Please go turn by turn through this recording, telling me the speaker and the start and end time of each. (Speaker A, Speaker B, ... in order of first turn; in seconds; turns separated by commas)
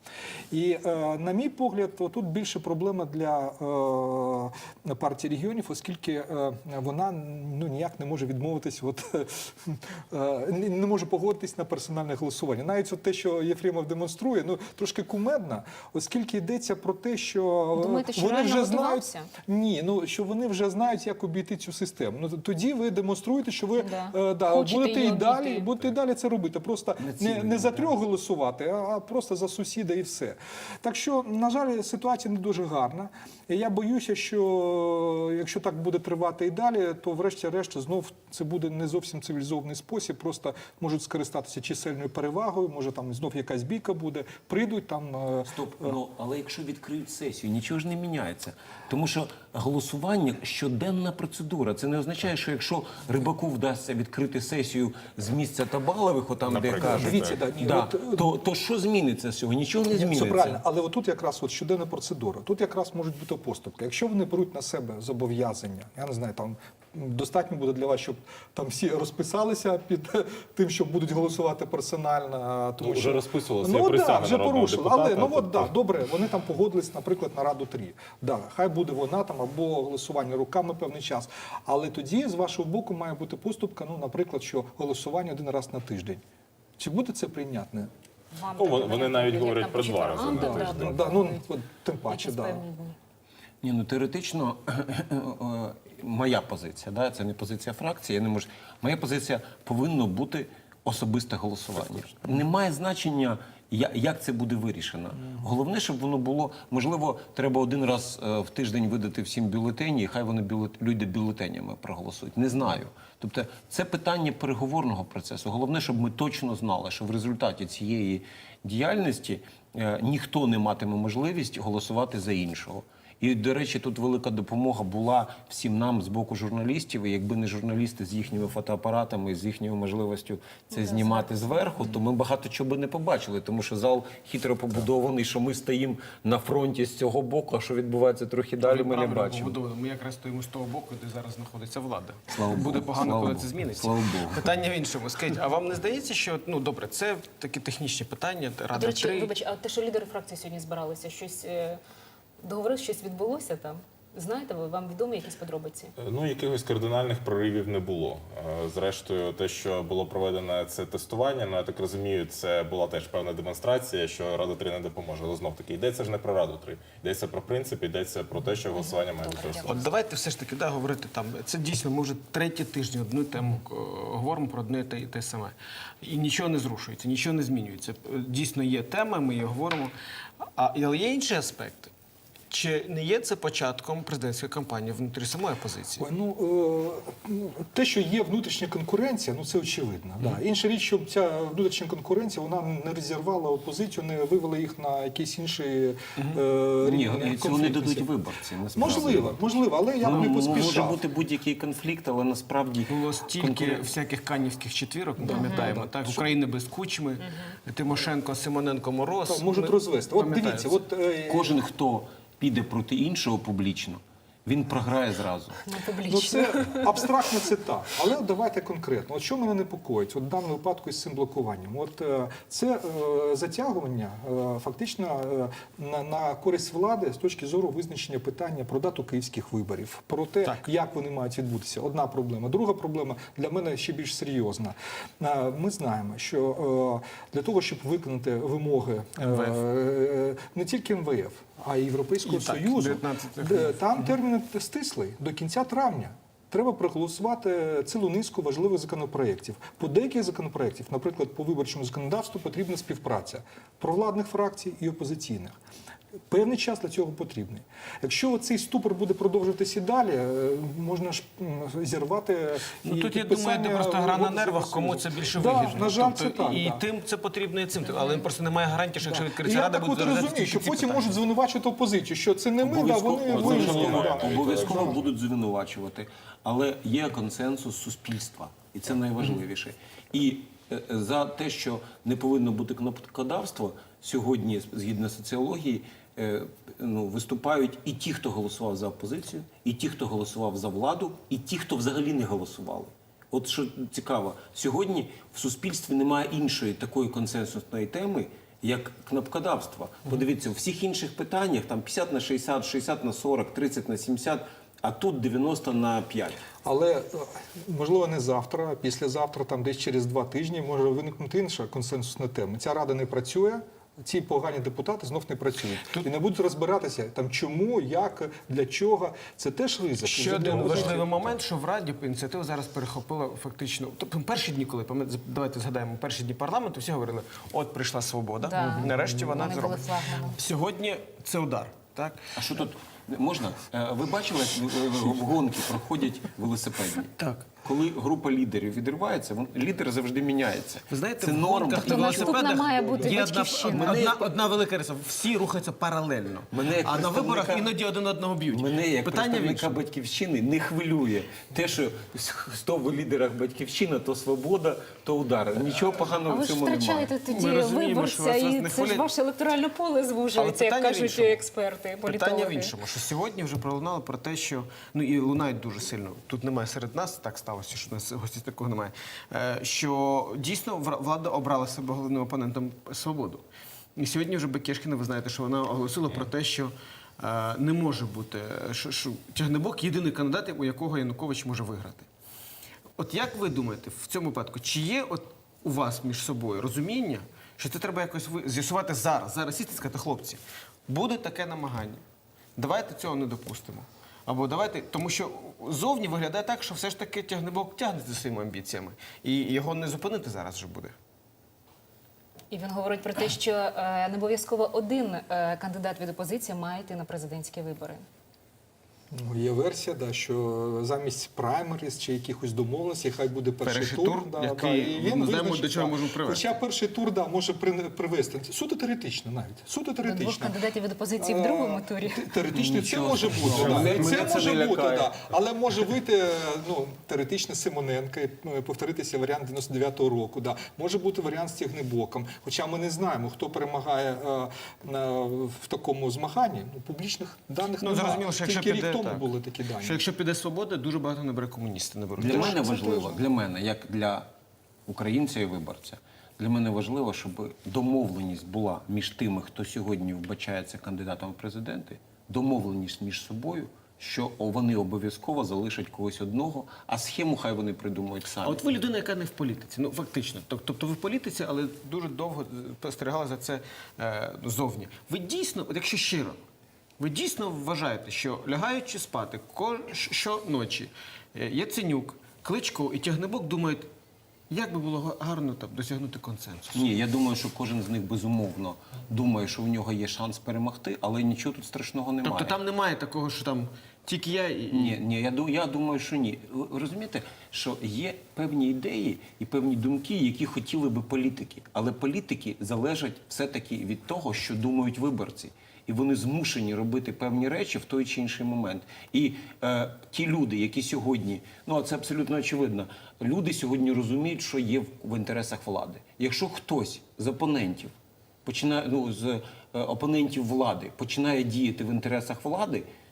Speaker A: 0.5-46.0, Speaker B: 17.7-19.3, Speaker B: 23.8-25.6, Speaker C: 27.0-27.9, Speaker C: 45.5-60.6, Speaker D: 56.4-57.4, Speaker A: 56.8-58.4, Speaker A: 59.9-86.2, Speaker D: 72.8-75.7, Speaker A: 86.8-87.9, Speaker B: 88.3-91.4, Speaker D: 88.6-91.0, Speaker A: 90.2-92.6, Speaker B: 92.1-93.0, Speaker C: 93.6-139.6, Speaker B: 130.7-131.9, Speaker E: 138.6-149.3, Speaker C: 142.3-144.6, Speaker B: 148.7-151.8, Speaker B: 152.4-155.9, Speaker D: 156.0-169.7, Speaker B: 168.7-169.9, Speaker E: 169.6-181.9, Speaker E: 182.5-186.1, Speaker A: 186.0-198.1, Speaker C: 196.8-199.4, Speaker A: 198.7-201.0, Speaker C: 200.0-203.9, Speaker E: 202.9-210.8, Speaker A: 205.2-206.2, Speaker B: 205.3-205.7, Speaker B: 207.2-207.5, Speaker A: 209.3-211.6, Speaker C: 211.3-215.6, Speaker B: 215.7-217.0, Speaker A: 216.0-255.6, Speaker E: 239.3-239.6, Speaker E: 242.2-244.1, Speaker A: 256.3-266.8, Speaker E: 262.8-271.2, Speaker B: 267.8-268.2, Speaker A: 269.0-275.0, Speaker C: 272.6-306.4, Speaker D: 273.3-275.1, Speaker A: 306.6-321.2, Speaker E: 320.0-332.3, Speaker B: 328.4-330.4, Speaker A: 328.8-329.6, Speaker C: 332.3-337.1, Speaker E: 337.2-337.5, Speaker C: 337.6-342.5, Speaker E: 340.9-349.8, Speaker B: 341.8-344.0, Speaker A: 342.7-343.2, Speaker C: 343.6-344.3, Speaker C: 346.5-347.7, Speaker C: 348.5-357.1, Speaker B: 356.2-362.7, Speaker E: 357.3-359.1, Speaker E: 360.3-361.4, Speaker E: 362.0-373.4, Speaker E: 373.9-382.1, Speaker E: 383.0-392.0, Speaker E: 392.6-400.9, Speaker B: 402.5-408.0, Speaker A: 409.1-420.6, Speaker E: 413.6-416.5, Speaker B: 420.0-422.3, Speaker A: 421.2-440.0, Speaker C: 422.5-425.1, Speaker E: 423.5-424.1, Speaker E: 437.8-442.6, Speaker C: 442.2-444.3, Speaker A: 442.2-443.2, Speaker C: 444.9-458.7, Speaker E: 458.4-466.4, Speaker E: 467.0-473.9, Speaker E: 474.5-476.9, Speaker C: 476.7-482.6, Speaker E: 482.2-485.0, Speaker C: 484.7-507.9, Speaker C: 508.4-512.9